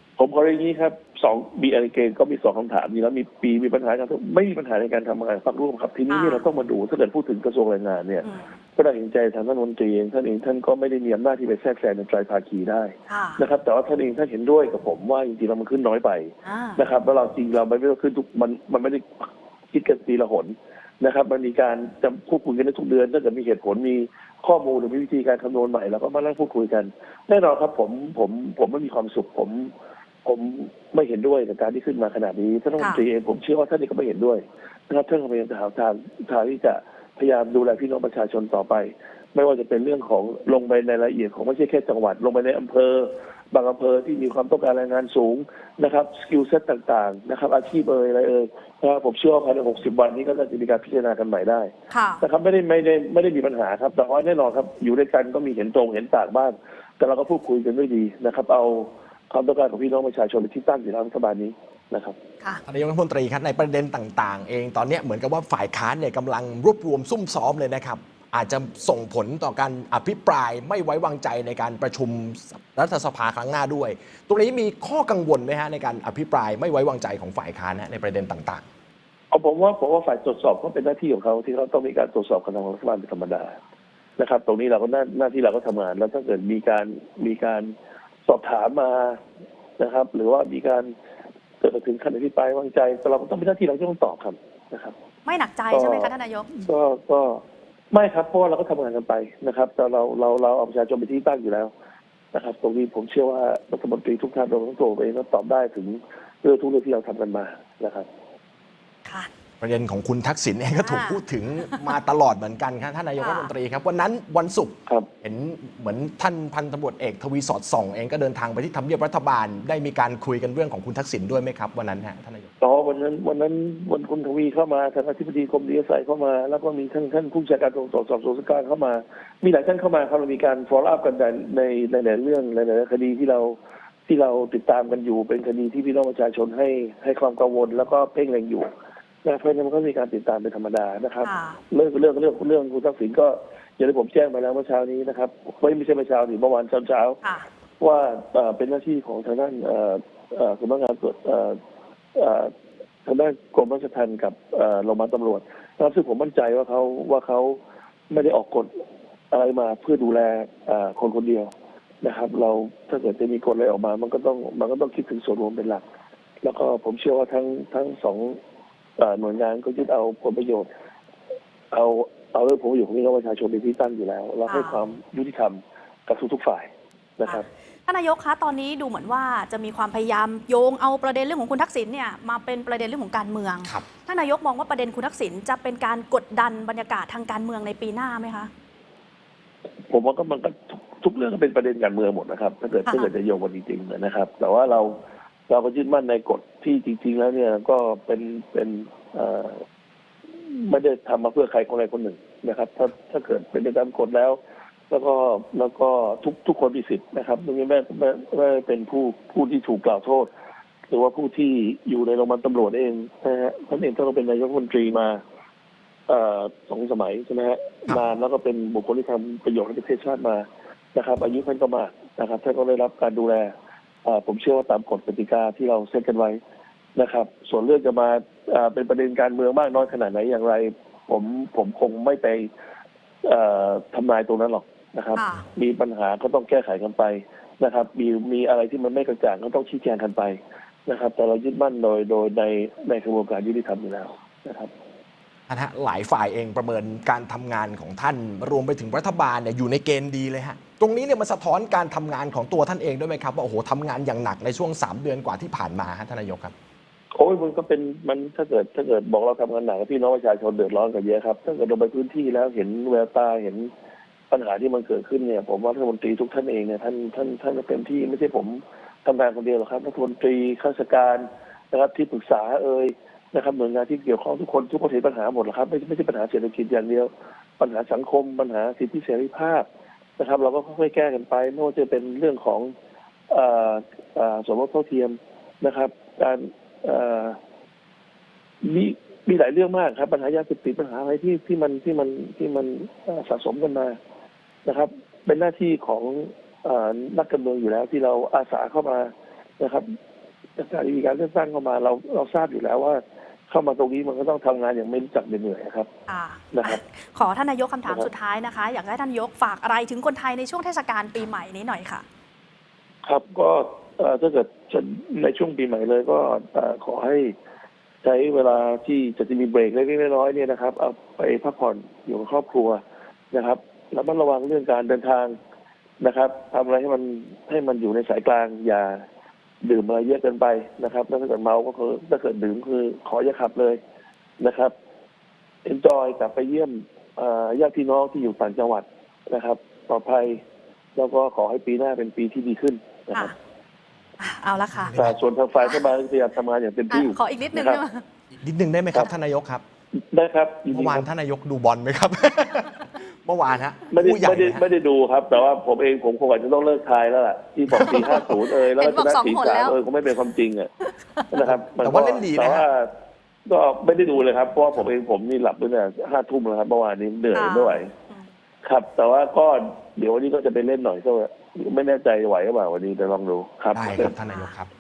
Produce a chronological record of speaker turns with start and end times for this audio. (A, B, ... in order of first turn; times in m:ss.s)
0:00.2-0:29.7 A
0:06.1-0:06.4 B
0:08.2-0:08.5 B
0:13.1-0:13.4 B
0:16.4-0:16.8 B
0:30.2-1:02.2 A
0:32.8-0:33.0 B
0:51.9-0:52.2 B
1:02.7-1:18.6 C
1:19.3-1:23.6 A
1:24.2-1:27.7 A
1:28.2-1:29.2 A
1:29.8-1:30.9 A
1:31.6-1:34.9 A
1:35.2-1:36.5 B
1:35.7-1:41.7 A
1:42.3-1:48.1 A
1:49.6-2:02.5 C
1:50.8-1:51.9 B
1:53.2-1:53.5 B
2:02.6-2:18.7 A
2:19.2-2:27.2 A
2:21.2-2:21.6 B
2:27.8-2:31.6 A
2:32.1-2:32.5 A
2:33.0-2:37.6 A
2:38.1-2:38.7 A
2:39.3-2:45.8 A
2:46.4-2:48.4 A
2:49.0-2:50.7 A
2:51.7-2:57.5 A
2:54.5-2:54.8 B
2:57.2-3:08.5 B
3:09.9-3:19.6 A
3:20.3-3:24.4 A
3:24.9-3:30.3 A
3:30.9-3:35.2 A
3:36.1-3:43.5 A
3:44.0-3:46.4 A
3:47.0-3:52.5 A
3:53.2-4:04.7 A
3:55.1-3:55.4 B
4:05.5-4:16.5 C
4:17.1-4:23.7 A
4:24.3-4:39.6 A
4:40.2-4:42.7 A
4:43.3-4:47.4 A
4:48.6-4:54.0 A
4:54.6-4:59.9 A
5:00.6-5:05.9 A
5:06.1-5:12.0 B
5:06.5-5:06.8 A
5:13.0-5:17.3 A
5:18.0-5:25.4 A
5:26.0-5:29.0 A
5:29.6-5:33.8 A
5:34.4-5:34.7 A
5:35.6-5:40.4 A
5:41.0-5:43.3 A
5:44.2-5:45.0 B
5:44.8-5:45.2 C
5:44.9-5:47.8 A
5:45.6-5:45.8 B
5:46.9-5:48.0 B
5:48.4-5:49.6 C
5:50.1-5:51.0 A
5:50.7-5:54.6 C
5:53.9-6:00.7 A
5:57.7-5:58.2 C
5:57.8-5:59.8 B
6:00.8-6:01.2 B
6:01.3-6:02.9 A
6:01.4-6:02.6 C
6:03.5-6:07.9 A
6:07.3-6:08.2 B
6:08.6-6:14.1 A
6:13.7-6:14.7 C
6:14.0-6:14.5 B